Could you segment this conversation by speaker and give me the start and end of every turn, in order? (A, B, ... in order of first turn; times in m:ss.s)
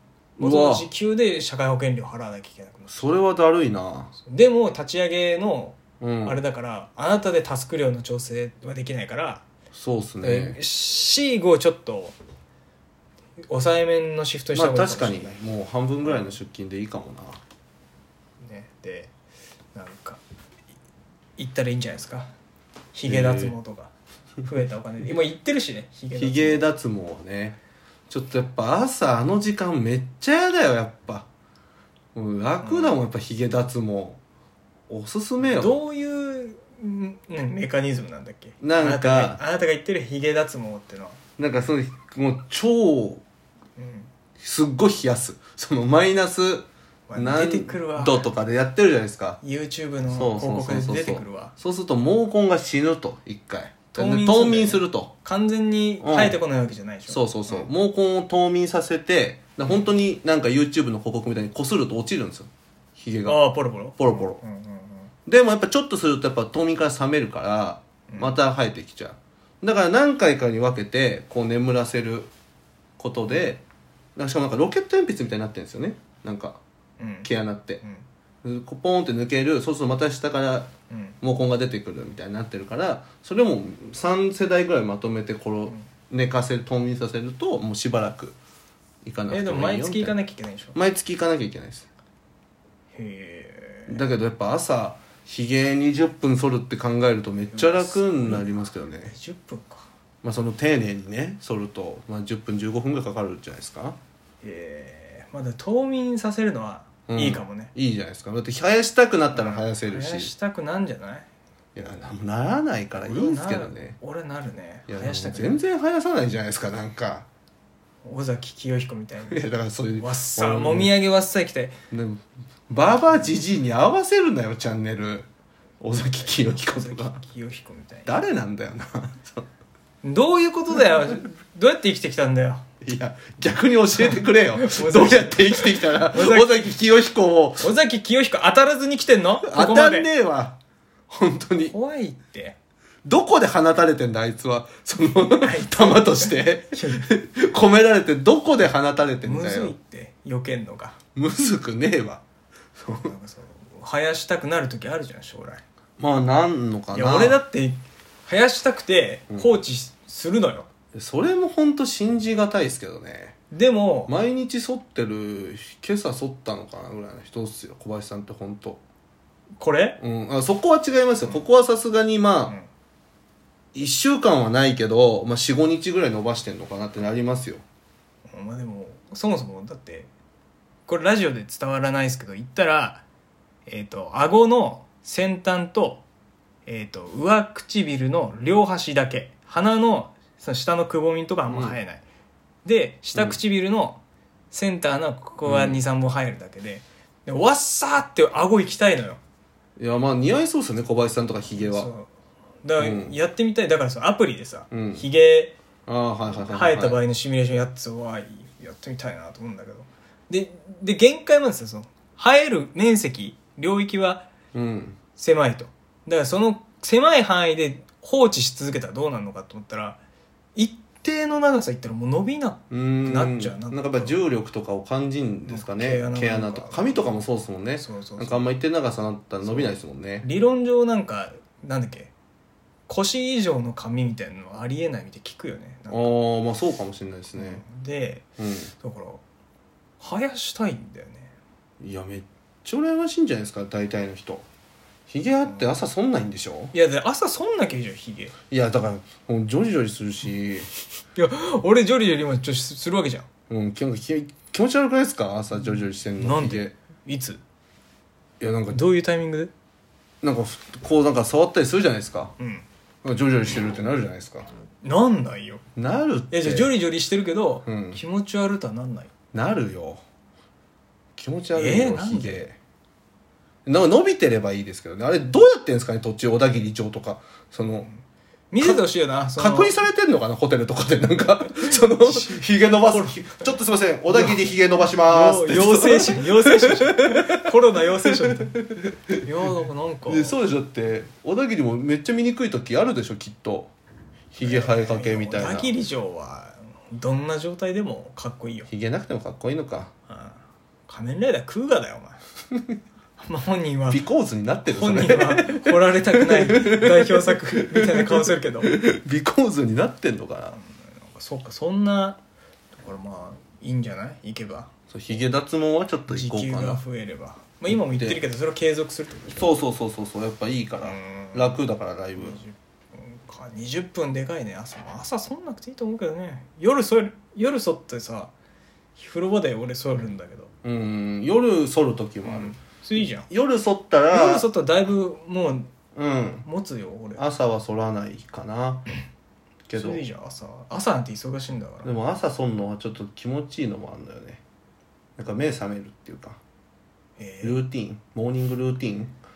0:00.4-0:03.1 A
0:00.4-0:00.9 B
0:02.9-0:04.1 B
0:04.2-0:09.5 A
0:06.0-0:06.4 B
0:09.7-0:10.6 B
0:10.2-0:12.2 A
0:13.5-0:15.4 A
0:14.5-0:17.4 B
0:16.0-0:16.3 A
0:18.4-0:19.1 A
0:19.7-0:20.2 A
0:21.4-0:22.3 A
0:22.9-0:23.9 A
0:23.0-0:23.6 B
0:24.4-0:26.6 A
0:26.1-0:27.6 B
0:28.1-0:31.3 B
0:32.2-0:34.2 B
0:32.6-0:33.0 A
0:34.9-0:35.8 B
0:35.4-0:41.2 A
0:38.6-0:39.4 B
0:41.4-0:43.2 B
0:43.8-0:44.1 A
0:44.4-0:49.4 B
0:47.1-0:48.3 A
0:49.4-0:51.5 A
0:50.1-0:55.1 B
0:53.9-0:57.7 A
0:56.0-0:56.4 B
0:57.1-1:04.4 B
1:03.3-1:05.1 A
1:05.3-1:12.3 B
1:08.1-1:08.4 A
1:13.0-1:13.6 B
1:14.2-1:16.6 B
1:17.0-1:17.3 A
1:17.2-1:17.8 B
1:18.4-1:20.7 B
1:20.9-1:21.2 A
1:21.2-1:28.4 B
1:29.0-1:30.2 B
1:29.3-1:30.8 A
1:30.7-1:31.9 B
1:33.0-1:34.0 A
1:33.9-1:39.1 B
1:37.5-1:39.9 A
1:40.2-1:44.0 B
1:44.4-1:47.7 A
1:47.1-1:50.3 B
1:49.3-1:51.3 A
1:51.8-1:54.0 B
1:53.0-1:55.6 A
1:54.9-1:57.3 B
1:58.0-1:59.4 A
1:59.3-2:00.9 B
2:00.0-2:01.8 A
2:01.9-2:05.3 B
2:05.8-2:07.2 B
2:05.9-2:08.2 A
2:08.1-2:09.5 B
2:10.0-2:12.6 A
2:12.8-2:17.7 B
2:14.0-2:16.8 A
2:17.6-2:20.1 A
2:19.4-2:21.7 B
2:21.6-2:22.6 A
2:23.0-2:29.8 B
2:25.3-2:27.1 A
2:29.2-2:31.0 A
2:31.2-2:32.2 B
2:32.8-2:33.1 B
2:32.9-2:35.6 A
2:36.0-2:37.4 B
2:36.9-2:40.7 A
2:40.9-2:43.4 B
2:43.5-2:44.1 A
2:44.1-2:48.8 B
2:49.6-2:50.0 A
2:50.0-2:52.6 B
2:53.7-2:57.6 B
2:58.3-3:00.1 A
3:00.9-3:03.0 A
3:03.7-3:06.0 A
3:06.7-3:12.0 A
3:11.5-3:11.8 B
3:12.6-3:19.2 A
3:15.4-3:15.8 B
3:19.8-3:21.9 B
3:21.6-3:22.1 A
3:22.6-3:25.6 A
3:22.8-3:23.2 B
3:24.7-3:25.0 B
3:25.9-3:27.0 B
3:26.3-3:34.3 A
3:34.5-3:35.0 B
3:35.2-3:40.0 A
3:40.6-3:44.2 A
3:42.7-3:50.3 B
3:45.5-3:47.1 A
3:47.8-3:48.5 A
3:49.4-3:52.1 A
3:52.9-3:56.1 A
3:55.9-3:57.6 B
3:57.4-3:58.3 A
3:58.4-3:58.7 B
3:58.8-3:59.2 A
4:00.0-4:01.3 A
4:01.8-4:04.4 B
4:05.1-4:06.7 B
4:06.7-4:08.4 A
4:08.5-4:10.7 B
4:11.2-4:13.3 A
4:13.5-4:16.8 B
4:16.2-4:17.4 A
4:18.4-4:18.9 B
4:18.7-4:19.5 A
4:20.2-4:22.3 B
4:22.4-4:22.7 A
4:23.0-4:24.5 B
4:24.8-4:25.6 A
4:25.8-4:26.7 B
4:26.3-4:29.1 A
4:27.7-4:28.0 B
4:29.3-4:30.0 B
4:31.2-4:32.6 B
4:31.5-4:32.4 A
4:33.7-4:37.9 B
4:37.8-4:39.7 A
4:39.4-4:47.2 B
4:41.6-4:43.4 A
4:44.1-4:44.4 A
4:45.0-4:48.6 A
4:48.7-4:49.2 B
4:49.1-4:50.4 A
4:50.1-4:53.7 B
4:54.3-4:55.8 B
4:54.4-4:58.7 A
4:58.7-4:59.9 B
5:00.1-5:02.2 A
5:03.2-5:04.0 A
5:03.9-5:05.6 B
5:04.7-5:08.7 A
5:06.2-5:10.6 B
5:10.5-5:12.2 A
5:12.8-5:14.7 A
5:14.9-5:16.8 B
5:16.1-5:19.5 A
5:17.7-5:18.2 B
5:19.4-5:22.4 B
5:20.8-5:21.6 A
5:22.2-5:28.3 A
5:29.0-5:30.5 A
5:30.6-5:34.5 B
5:32.2-5:33.3 A
5:34.1-5:35.7 A
5:36.0-5:36.4 B
5:36.4-5:37.2 A
5:37.2-5:38.9 B
5:39.7-5:40.0 B
5:39.7-5:41.9 A
5:41.8-5:44.4 B
5:45.2-5:46.4 B
5:47.2-5:47.6 A
5:47.4-5:49.2 B